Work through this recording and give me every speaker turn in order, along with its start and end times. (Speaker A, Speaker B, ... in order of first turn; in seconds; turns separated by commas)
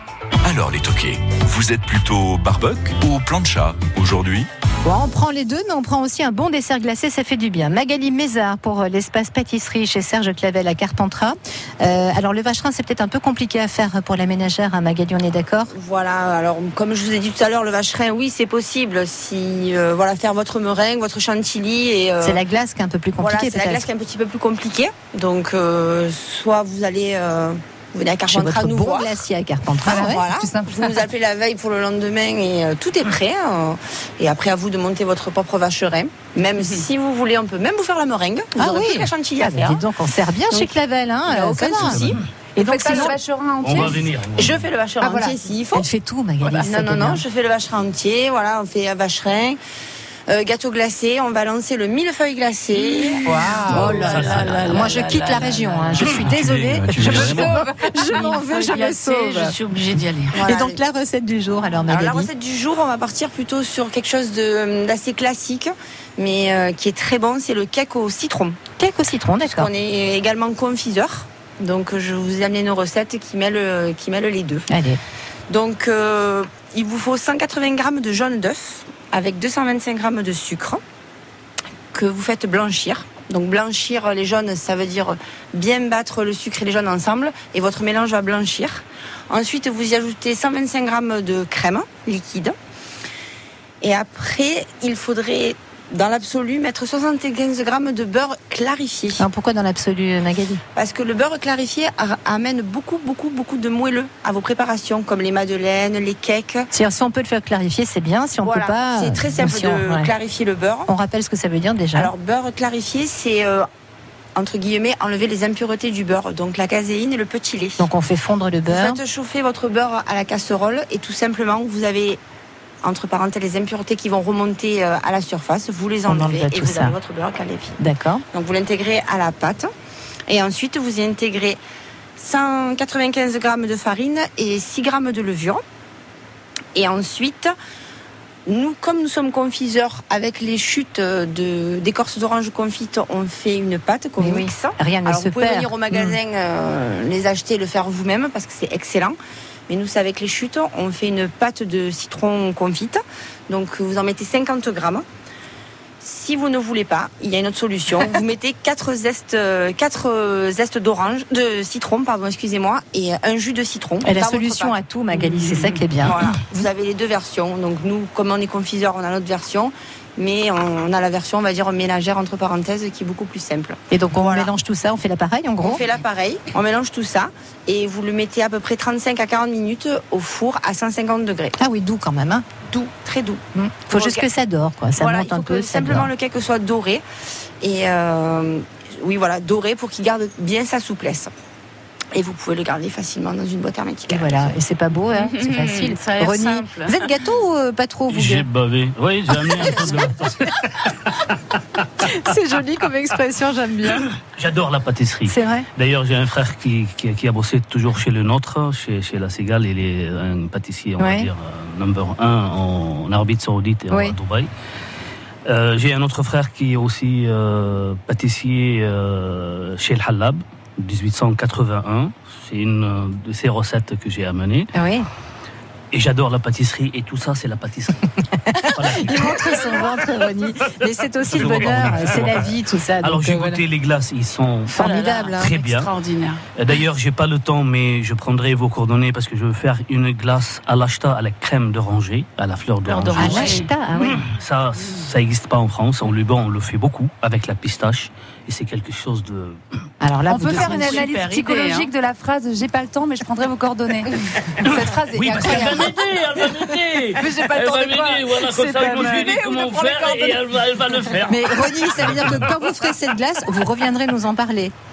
Speaker A: 0.5-4.5, Speaker B: 4.8-15.7, Speaker C: 15.7-22.4, Speaker B: 22.2-23.9, Speaker C: 23.2-29.2, Speaker B: 28.3-30.2, Speaker D: 29.9-31.0, Speaker C: 29.9-39.8, Speaker B: 38.6-43.2, Speaker C: 41.3-43.1, Speaker E: 41.9-42.2, Speaker D: 42.6-44.0, Speaker E: 43.6-44.7, Speaker C: 43.8-45.9, Speaker B: 45.0-47.2, Speaker C: 46.4-49.6, Speaker C: 50.3-54.8, Speaker D: 52.9-56.2, Speaker E: 53.7-54.9, Speaker B: 53.7-59.5, Speaker A: 56.3-57.5, Speaker D: 57.0-60.4, Speaker C: 60.3-60.8, Speaker B: 60.4-62.3, Speaker C: 61.9-68.6, Speaker B: 68.8-69.7, Speaker C: 69.4-74.7, Speaker B: 74.7-75.0, Speaker C: 75.5-80.8, Speaker C: 81.9-92.6, Speaker C: 93.8-99.2, Speaker B: 99.2-100.6, Speaker C: 100.8-106.7, Speaker B: 106.7-110.1, Speaker C: 108.4-110.9, Speaker B: 110.9-112.1, Speaker C: 112.0-113.7, Speaker C: 114.4-117.8, Speaker B: 117.8-119.0, Speaker C: 118.7-122.2, Speaker C: 122.8-127.8, Speaker B: 126.1-127.0, Speaker B: 127.8-128.2, Speaker C: 128.3-129.7, Speaker C: 130.3-131.6, Speaker C: 132.2-135.6, Speaker C: 136.8-137.5, Speaker C: 138.5-149.2, Speaker B: 144.2-146.2, Speaker C: 149.7-155.0, Speaker C: 156.0-164.8, Speaker B: 164.0-166.2, Speaker C: 166.0-174.5, Speaker B: 173.9-175.8, Speaker C: 175.6-181.6, Speaker B: 181.6-182.5, Speaker C: 182.7-184.2, Speaker B: 183.6-186.1, Speaker C: 185.0-187.0, Speaker C: 187.6-191.3, Speaker C: 192.1-194.5, Speaker B: 194.1-198.5, Speaker D: 195.3-196.9, Speaker E: 198.1-201.8, Speaker B: 202.0-204.1, Speaker E: 204.2-214.5, Speaker B: 205.3-205.7, Speaker B: 211.0-211.3, Speaker B: 213.9-214.2, Speaker E: 215.5-224.7, Speaker B: 224.7-225.1, Speaker E: 225.9-228.1, Speaker B: 228.3-233.6, Speaker E: 228.7-230.5, Speaker E: 231.2-234.8, Speaker B: 234.7-235.6, Speaker D: 234.8-236.4, Speaker E: 235.3-235.9, Speaker E: 236.6-249.6, Speaker D: 242.9-243.7, Speaker B: 243.1-244.2, Speaker B: 250.0-251.9, Speaker D: 250.3-255.7, Speaker E: 254.6-262.6, Speaker B: 254.6-256.0, Speaker D: 257.2-260.3, Speaker B: 258.6-259.0, Speaker B: 261.2-264.7